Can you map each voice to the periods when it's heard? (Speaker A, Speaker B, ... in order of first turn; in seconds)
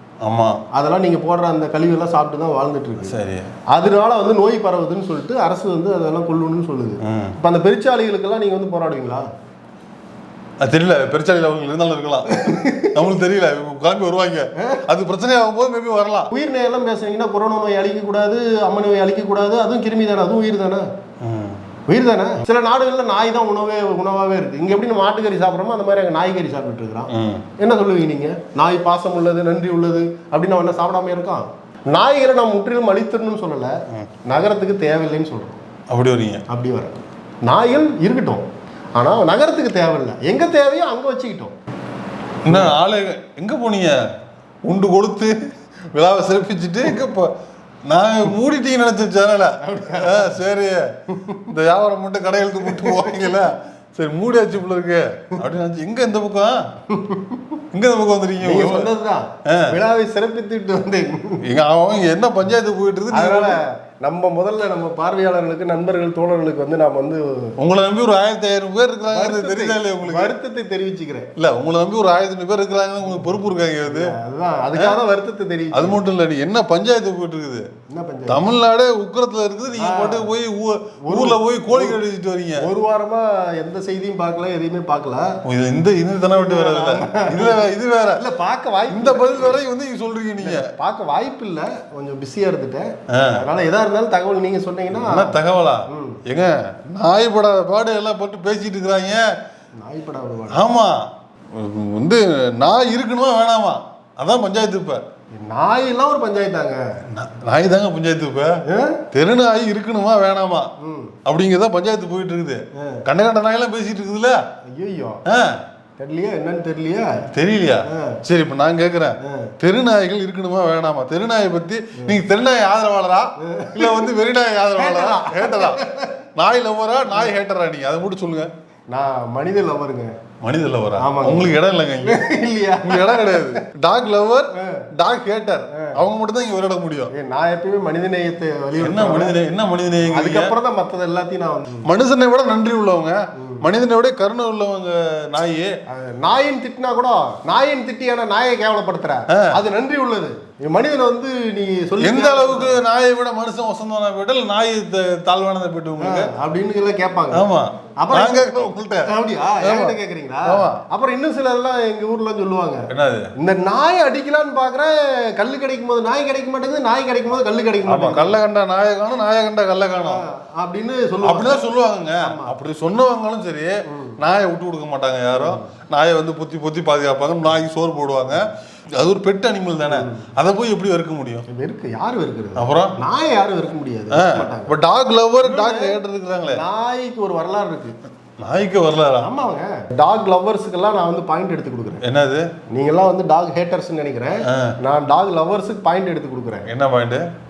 Speaker A: 0.2-0.6, 3.0-3.5, 7.0-7.3, 10.6-16.3, 21.2-21.6, 27.1-27.5, 35.9-36.4, 42.5-44.0, 44.7-45.4, 45.9-47.3, 47.9-50.9, 51.5-56.6, 57.7-58.9, 59.5-59.8, 61.4-63.6, 67.6-70.3, 71.4-74.1, 75.7-77.7, 78.3-82.7, 85.5-88.2, 88.9-90.7, 93.1-93.4, 94.9-99.3, 100.5-105.0, 107.1-110.7, 111.2-114.4, 115.2-115.6, 117.3-125.8, 126.3-128.5, 130.4-132.2, 132.8-137.1, 138.8-140.5, 141.8-145.7, 149.3-149.6, 152.0-156.3, 157.3-159.1, 159.6-160.8, 162.9-163.3, 167.8-170.2, 171.2-181.5, 182.6-183.0, 184.1-186.6, 188.4-189.3, 192.0-192.5, 194.5-194.8, 196.7-197.2
Speaker B: 0.7-3.2, 3.7-9.2, 12.3-12.9, 14.6-14.8, 16.3-20.9, 21.9-33.7, 34.3-35.6, 36.5-38.4, 39.0-41.5, 42.5-42.7, 49.6-50.3, 51.1-51.5, 52.6-53.3, 56.9-57.6, 58.4-61.4, 63.1-67.5, 69.1-71.3, 73.9-76.0, 77.9-78.4, 79.8-80.3, 81.0-82.0, 82.6-85.4, 86.3-87.6, 88.2-89.6, 90.4-95.4, 95.9-96.2, 99.8-100.7, 105.3-106.8, 108.7-109.0, 110.8-111.2, 112.8-113.0, 114.7-115.2, 116.0-117.2, 117.9-118.2, 119.2-119.5, 123.4-124.1, 124.8-126.2, 128.9-130.1, 131.0-133.6, 134.5-134.9, 137.1-139.4, 140.1-141.8, 143.4-143.7, 145.9-152.8, 156.0-157.4, 158.0-162.9, 163.4-168.4, 170.0-172.5, 173.9-174.2, 175.3-175.6, 179.9-180.3, 181.5-184.7, 185.4-187.9, 189.2-192.0, 192.7-196.7